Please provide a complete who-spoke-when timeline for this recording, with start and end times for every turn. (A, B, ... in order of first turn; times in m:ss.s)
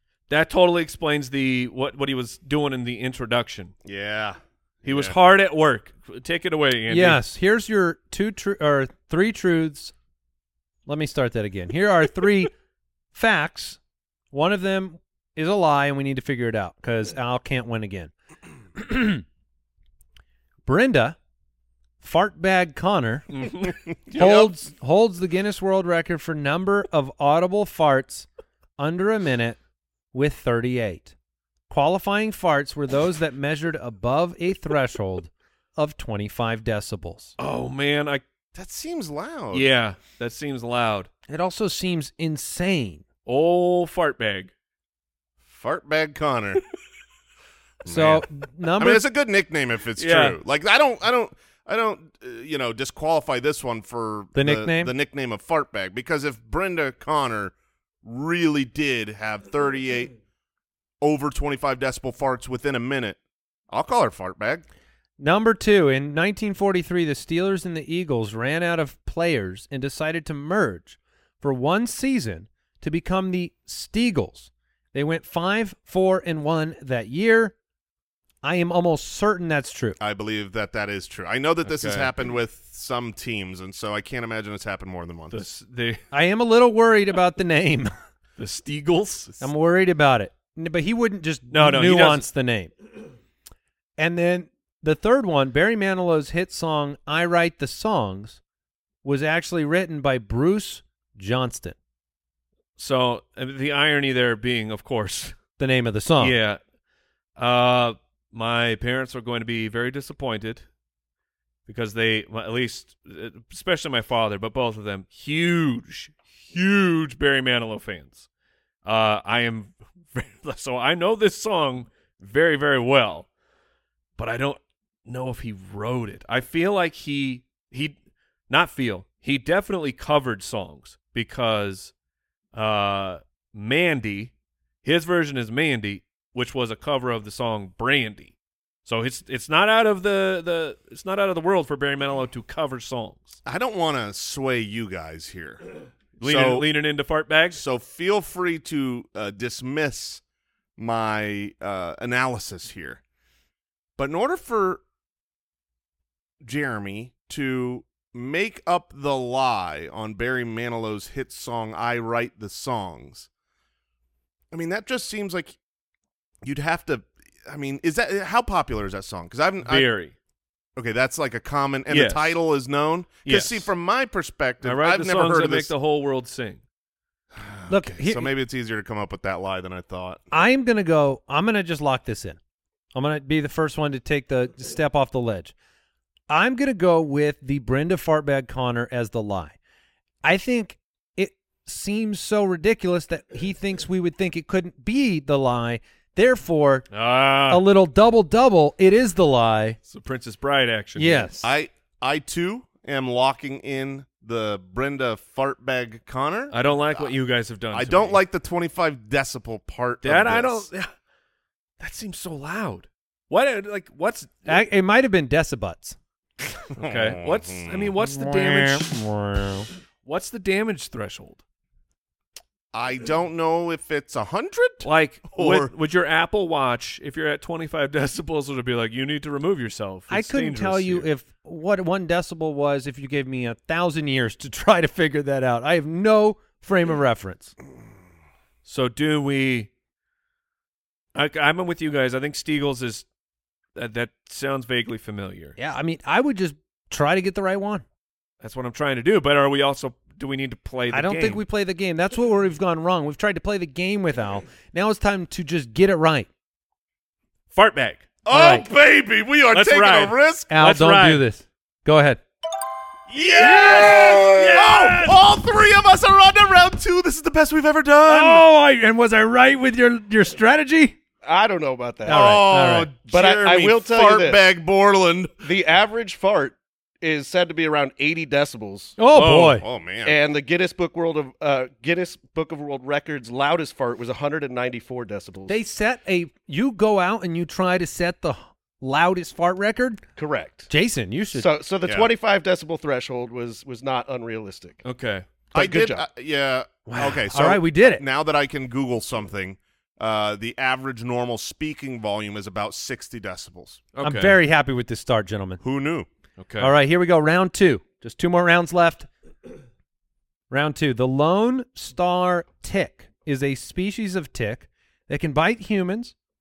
0:00.3-0:03.7 A
0:03.8-0:05.2 B
0:04.8-0:07.2 A
0:06.9-0:09.9 C
0:10.9-0:12.5 C
0:13.1-0:13.8 C
0:14.3-0:18.1 C
0:18.8-0:19.2 C
0:20.7-0:21.2 C
0:22.0-0:23.3 C
0:23.3-0:24.4 A
0:24.1-0:24.5 B
0:24.2-0:28.3 C
0:28.8-0:29.6 C
0:30.1-0:31.1 C
0:31.7-0:37.4 C
0:37.4-0:38.2 A
0:38.6-0:39.7 B
0:39.5-0:41.1 A
0:41.3-0:43.0 C
0:43.3-0:44.5 A
0:45.4-0:46.6 B
0:47.8-0:48.3 B
0:47.9-0:49.0 C
0:48.8-1:00.1 B
0:50.0-0:50.4 A
0:54.4-0:54.9 C
1:01.0-1:03.2 B
1:03.7-1:04.6 B
1:05.2-1:17.6 C
1:18.4-1:20.0 C
1:20.0-1:25.4 B
1:21.7-1:22.1 A
1:25.3-1:26.0 A
1:26.1-1:27.9 C
1:28.4-1:29.3 A
1:29.4-1:32.7 C
1:31.5-1:32.3 A
1:34.0-1:38.4 C
1:39.0-1:41.8 C
1:42.8-1:45.4 A
1:45.6-1:46.4 C
1:46.2-1:46.6 A
1:47.4-1:50.6 A
1:51.7-1:58.3 A
1:58.8-2:03.3 A
2:04.2-2:08.0 A
2:08.5-2:11.9 A
2:12.5-2:14.3 A
2:14.8-2:18.3 A
2:18.8-2:23.4 A
2:23.5-2:25.6 B
2:26.2-2:26.7 B
2:26.2-2:27.6 A
2:27.5-2:30.2 B
2:30.8-2:33.0 B
2:34.0-2:34.8 B
2:36.4-2:43.3 B
2:44.5-2:45.6 B
2:46.4-2:49.9 B
2:49.6-2:50.1 A
2:50.8-2:55.7 B
2:51.9-2:52.4 A
2:53.2-2:53.7 A
2:54.6-2:56.6 A
2:57.3-3:00.2 B
2:57.7-2:58.3 C
3:00.3-3:02.4 C
3:02.9-3:05.5 C
3:06.3-3:09.6 C
3:10.2-3:16.9 C
3:16.9-3:17.6 A
3:17.5-3:19.8 C
3:19.9-3:21.3 A
3:21.0-3:21.5 C
3:21.4-3:27.1 B
3:26.5-3:28.2 A
3:27.7-3:30.7 B
3:30.0-3:30.9 A
3:31.8-3:34.6 A
3:34.5-3:36.0 C
3:36.7-3:37.9 B
3:36.8-3:38.9 A
3:38.0-3:39.7 C
3:40.0-3:41.4 A
3:42.7-3:45.7 B
3:44.8-3:51.1 A
3:50.1-3:57.5 C
3:58.7-3:59.7 A
4:01.2-4:03.1 A
4:03.8-4:05.6 A
4:05.6-4:07.8 C
4:08.4-4:11.4 A
4:10.9-4:16.3 C
4:17.5-4:18.1 A
4:18.2-4:20.5 B
4:18.3-4:18.7 C
4:19.5-4:21.2 A
4:20.5-4:22.2 C
4:23.1-4:25.2 A
4:23.2-4:28.4 B
4:28.0-4:31.0 C
4:31.2-4:32.4 D
4:32.1-4:32.9 C
4:32.1-4:35.3 B
4:33.1-4:34.4 D
4:35.4-4:39.0 D
4:39.0-4:39.6 C
4:39.1-4:39.6 A
4:39.5-4:40.2 B
4:40.0-4:45.6 D
4:45.5-4:50.0 C
4:50.2-4:50.7 D
4:50.7-4:51.5 C
4:51.3-4:54.8 D
4:54.8-4:55.3 A
4:55.5-4:56.1 D
4:55.5-5:03.8 B
4:56.9-4:58.0 C
5:03.9-5:04.4 A
5:04.0-5:05.6 C
5:05.6-5:06.1 B
5:06.4-5:06.7 A
5:06.6-5:09.1 C
5:10.5-5:16.2 C